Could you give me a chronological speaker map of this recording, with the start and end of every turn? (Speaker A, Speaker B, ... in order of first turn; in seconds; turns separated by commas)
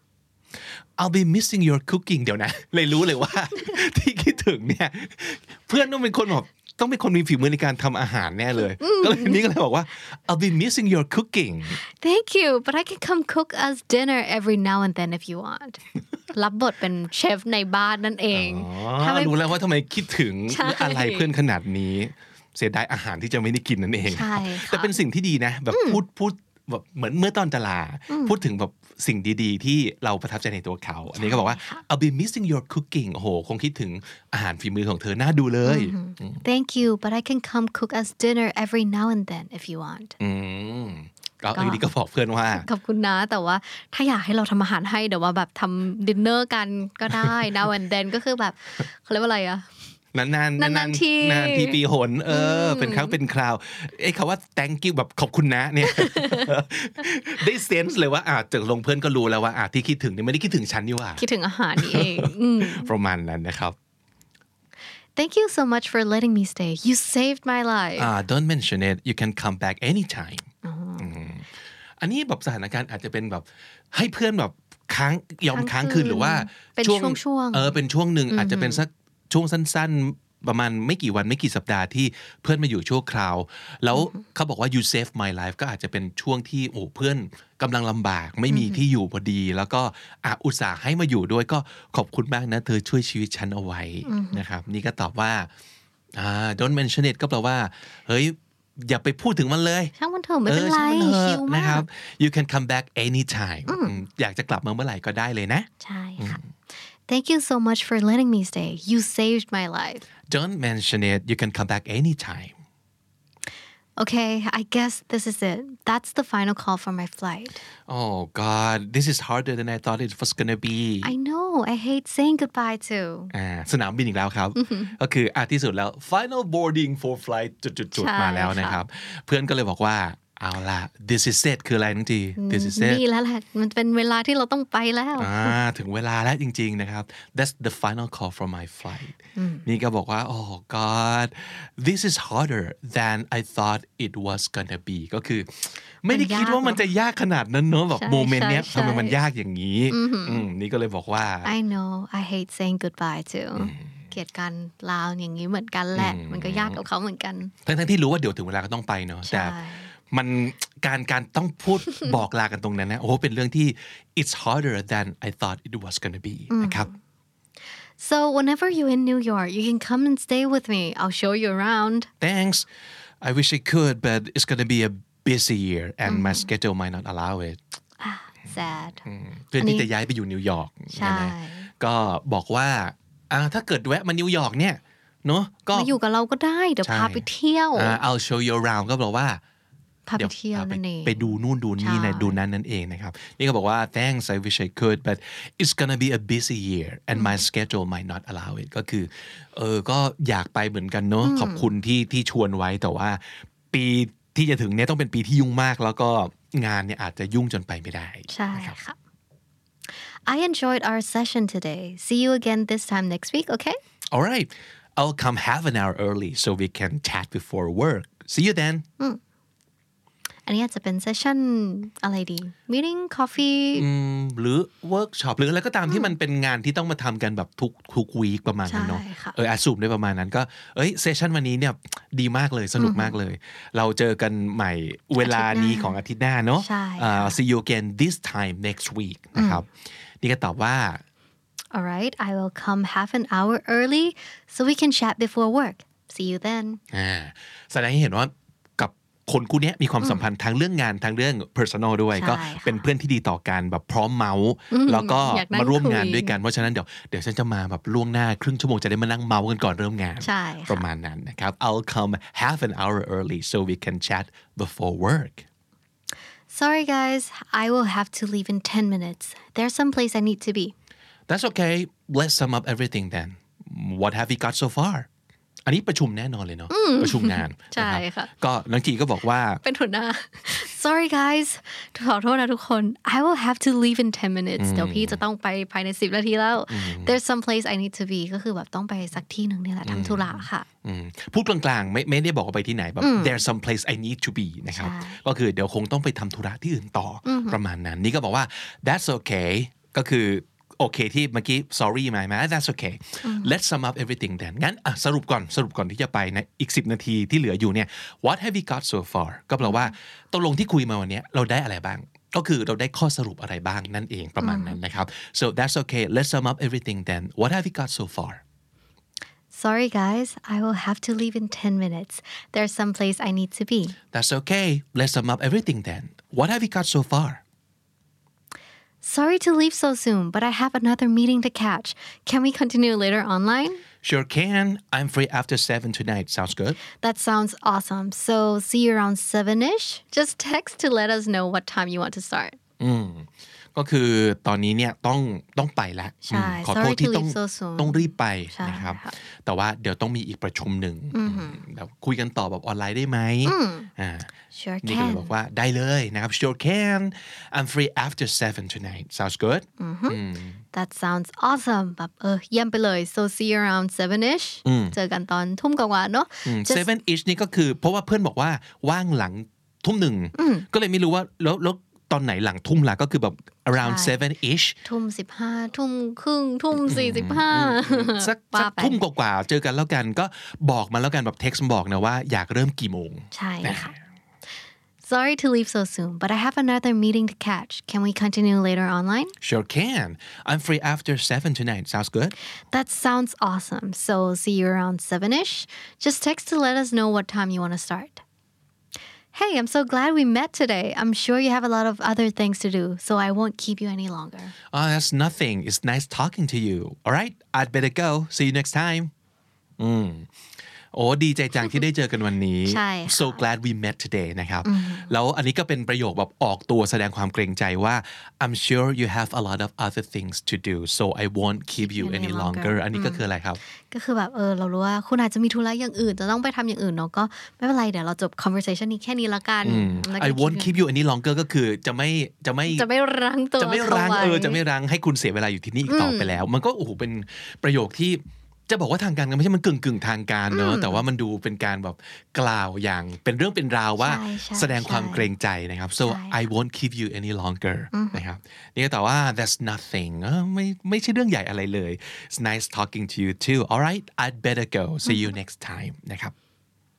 Speaker A: 1.0-11.8, Speaker B: 8.8-9.5, Speaker B: 11.8-19.4, Speaker A: 18.3-36.4, Speaker B: 20.5-21.3, Speaker B: 24.1-24.9, Speaker B: 25.7-26.0, Speaker B: 28.1-28.4, Speaker B: 31.1-31.8, Speaker B: 35.6-40.2, Speaker A: 40.2-42.6, Speaker B: 41.5-41.8, Speaker B: 42.5-49.7, Speaker A: 47.1-47.5, Speaker A: 50.1-61.2, Speaker B: 50.6-53.1, Speaker B: 55.8-56.5, Speaker B: 61.2-62.9, Speaker A: 61.8-63.8, Speaker B: 65.2-68.1, Speaker A: 68.0-71.5, Speaker B: 70.6-71.1, Speaker A: 72.0-95.5, Speaker B: 75.5-77.8, Speaker B: 78.3-78.8, Speaker B: 83.9-84.2, Speaker B: 88.5-88.8, Speaker B: 94.0-94.4, Speaker A: 96.2-99.9, Speaker B: 100.0-101.8, Speaker A: 100.5-106.4, Speaker B: 103.7-104.0, Speaker B: 105.8-106.4, Speaker B: 107.1-110.0, Speaker A: 110.3-112.5, Speaker B: 114.0-117.6, Speaker A: 117.9-121.1, Speaker B: 121.0-123.3, Speaker A: 123.3-133.0, Speaker B: 124.6-124.9, Speaker B: 127.9-128.8, Speaker B: 132.4-135.6, Speaker A: 135.2-151.5, Speaker B: 139.3-139.7, Speaker B: 146.1-146.8, Speaker B: 147.9-149.2, Speaker B: 149.9-150.4, Speaker B: 151.4-157.5, Speaker A: 153.6-153.9, Speaker A: 155.9-156.8, Speaker A: 157.6-159.6, Speaker B: 159.3-159.9, Speaker A: 160.1-166.9, Speaker B: 166.5-167.0, Speaker B: 168.0-172.1, Speaker A: 172.2-172.7, Speaker A: 173.2-177.6, Speaker B: 176.1-176.5, Speaker B: 178.0-179.0, Speaker A: 179.0-185.9, Speaker B: 179.6-179.9, Speaker B: 180.9-181.7, Speaker B: 185.7-188.0, Speaker A: 186.8-189.4, Speaker B: 190.1-192.4, Speaker A: 190.2-208.8, Speaker B: 197.1-197.4, Speaker B: 201.2-201.7, Speaker B: 208.3-208.9, Speaker B: 210.3-213.8, Speaker A: 214.1-218.8, Speaker B: 220.4-223.8, Speaker A: 223.7-239.7, Speaker B: 225.9-226.1, Speaker B: 228.7-229.3, Speaker B: 232.8-233.1, Speaker B: 235.2-235.9, Speaker B: 236.6-237.4, Speaker B: 239.3-239.6, Speaker A: 240.2-241.0, Speaker B: 241.7-246.8, Speaker A: 246.9-265.4, Speaker B: 252.1-252.9, Speaker B: 254.7-256.4, Speaker B: 260.2-260.8, Speaker B: 266.5-270.7, Speaker A: 271.3-275.1, Speaker A: 275.6-279.6, Speaker B: 276.7-278.3, Speaker B: 279.6-290.6, Speaker A: 284.6-285.2, Speaker A: 286.7-287.2, Speaker A: 289.8-318.4, Speaker B: 293.0-293.4, Speaker B: 294.7-295.2, Speaker B: 297.2-297.6, Speaker B: 303.2-303.5, Speaker B: 309.6-309.9, Speaker B: 314.4-314.8, Speaker B: 319.5-323.9, Speaker A: 324.1-327.4, Speaker B: 329.0-333.8, Speaker A: 334.0-336.8, Speaker B: 337.0-342.6, Speaker A: 342.8-354.3, Speaker B: 346.2-349.1, Speaker B: 351.1-351.6, Speaker B: 353.4-353.9, Speaker B: 354.5-355.3, Speaker A: 354.8-360.6, Speaker B: 359.8-360.2, Speaker B: 360.7-366.9, Speaker A: 364.6-364.9, Speaker A: 366.4-374.8, Speaker B: 370.4-370.7, Speaker B: 373.8-374.2, Speaker B: 374.8-379.0, Speaker A: 376.8-383.9, Speaker B: 383.3-383.9, Speaker B: 385.0-389.3, Speaker A: 389.4-392.3, Speaker B: 392.7-398.2, Speaker B: 399.3-404.5, Speaker A: 404.7-409.1, Speaker A: 409.8-410.3, Speaker A: 410.9-423.6, Speaker B: 412.6-413.4, Speaker B: 414.6-415.1, Speaker B: 421.8-423.2, Speaker B: 423.9-430.7, Speaker A: 429.6-432.9, Speaker B: 432.7-434.6, Speaker A: 433.6-456.3, Speaker B: 435.8-436.4, Speaker B: 440.5-441.0, Speaker B: 444.0-445.3, Speaker B: 446.0-446.4, Speaker B: 447.9-448.2, Speaker B: 455.0-455.3